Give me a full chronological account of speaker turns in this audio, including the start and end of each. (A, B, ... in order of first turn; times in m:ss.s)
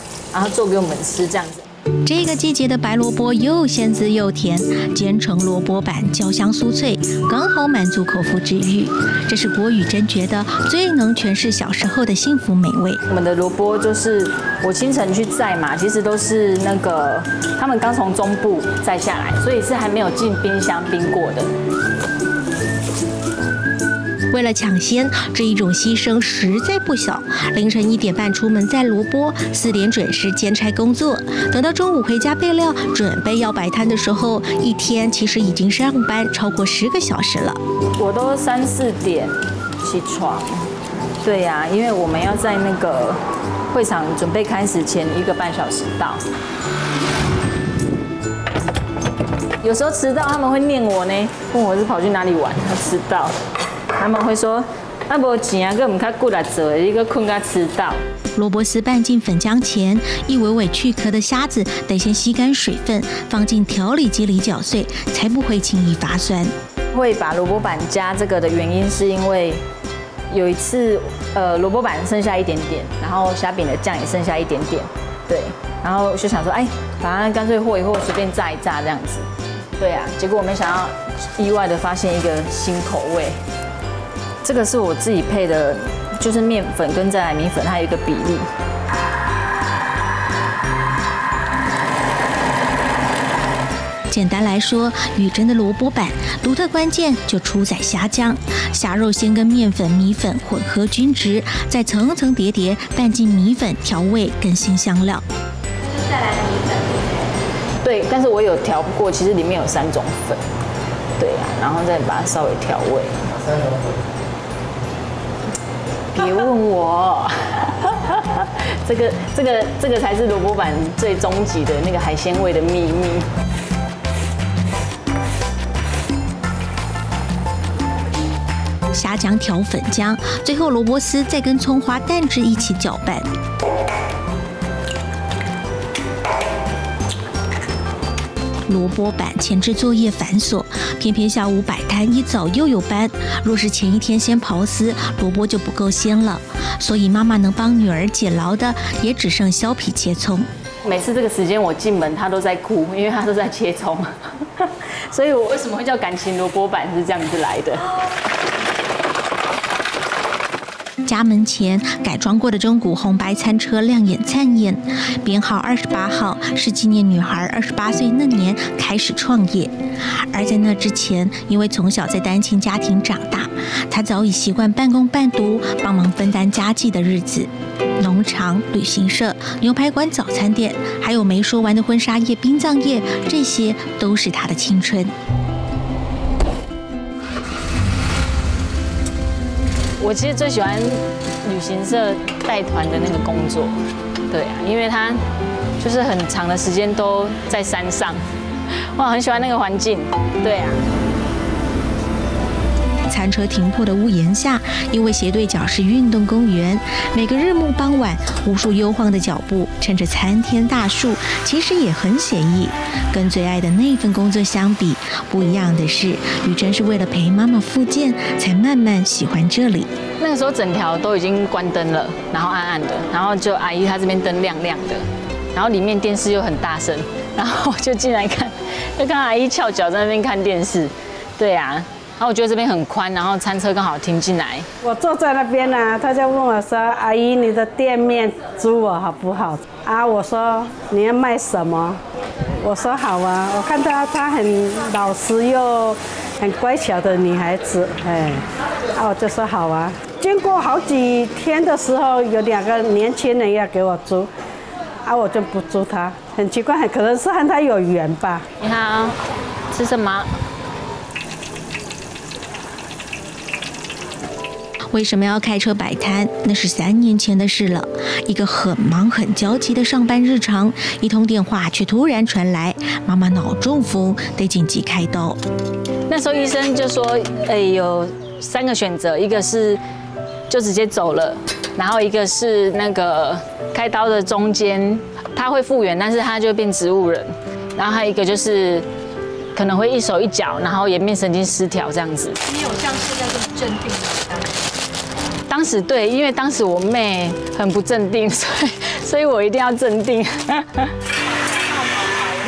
0:00.3-0:01.6 A
0:02.0-0:13.0 B
0:13.1-0:21.5 A
0:24.3-0:37.6 B
0:38.0-0:40.6 A
0:41.2-0:43.2 A
0:43.7-0:46.2 A
0:49.6-0:53.4 A
0:53.9-0:58.0 A
0:58.3-1:06.5 B
1:06.9-1:09.6 A
1:10.3-1:19.3 A
1:19.8-1:23.4 A
1:24.4-1:28.5 A
1:34.1-1:45.2 B
1:47.8-1:50.4 A
1:51.2-1:53.2 A
1:56.1-2:03.3 A
2:08.9-2:13.3 B
2:18.7-2:30.5 B
2:30.8-2:37.8 A
2:41.0-3:05.1 B
3:10.0-3:13.8 A
3:14.3-3:15.2 A
3:15.8-3:18.2 A
3:18.9-3:20.8 A
3:23.1-3:39.9 B
3:40.2-3:54.7 A
3:54.8-4:02.0 C
4:02.6-4:14.3 C
4:15.0-4:18.4 C
4:18.6-4:19.2 A
4:19.7-4:20.3 A
4:24.9-4:35.4 B
4:36.1-4:39.8 A
4:40.5-4:48.9 A
4:49.5-4:52.4 A
4:52.4-4:54.5 D
4:55.5-5:00.9 A